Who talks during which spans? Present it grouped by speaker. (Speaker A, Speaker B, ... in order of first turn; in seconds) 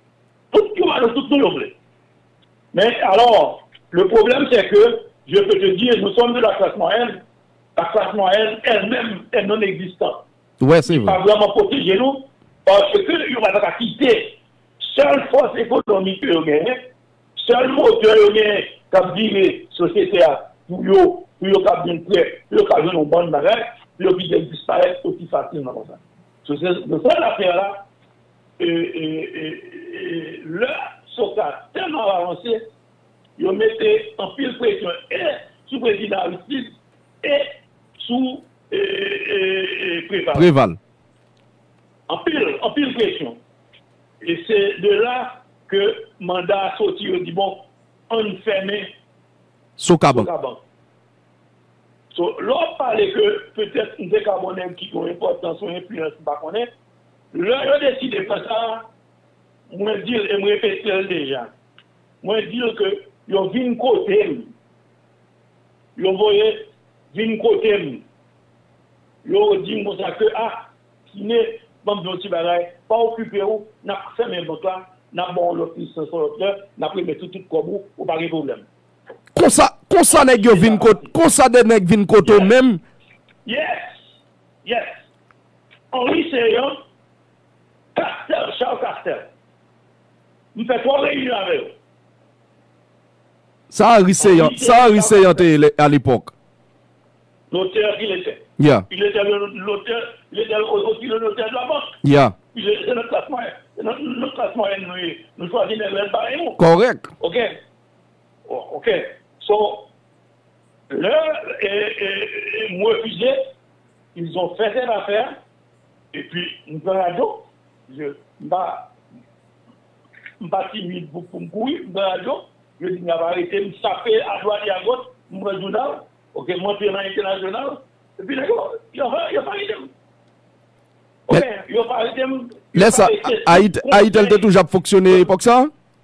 Speaker A: 0.5-1.7, 2.7-7.2, 7.8-10.2, 10.8-16.8, 17.4-27.8, 28.6-32.6, 33.4-37.5, 38.0-40.5, 42.1-43.4, 44.2-48.9, 50.1-50.6, 52.1-56.7, 57.3-58.9, 59.7-61.5, 62.2-64.5, 66.0-68.0, 69.2-78.7, 80.1-81.1, 82.2-82.5, 83.4-84.0, 84.6-84.9, 85.9-86.8, 87.9-89.3, 90.5-91.7, 94.2-95.5, 97.5-102.0, 102.5-106.6, 107.2-107.5, 108.5-109.9, 110.9-113.4, 114.1-115.3, 116.1-118.9, 120.4-129.9, 131.3-134.4
Speaker B: 10.6-11.2, 40.3-40.8, 49.8-50.3, 79.3-82.8, 93.7-96.3, 98.6-98.9, 102.0-102.3, 106.6-107.1, 132.7-135.7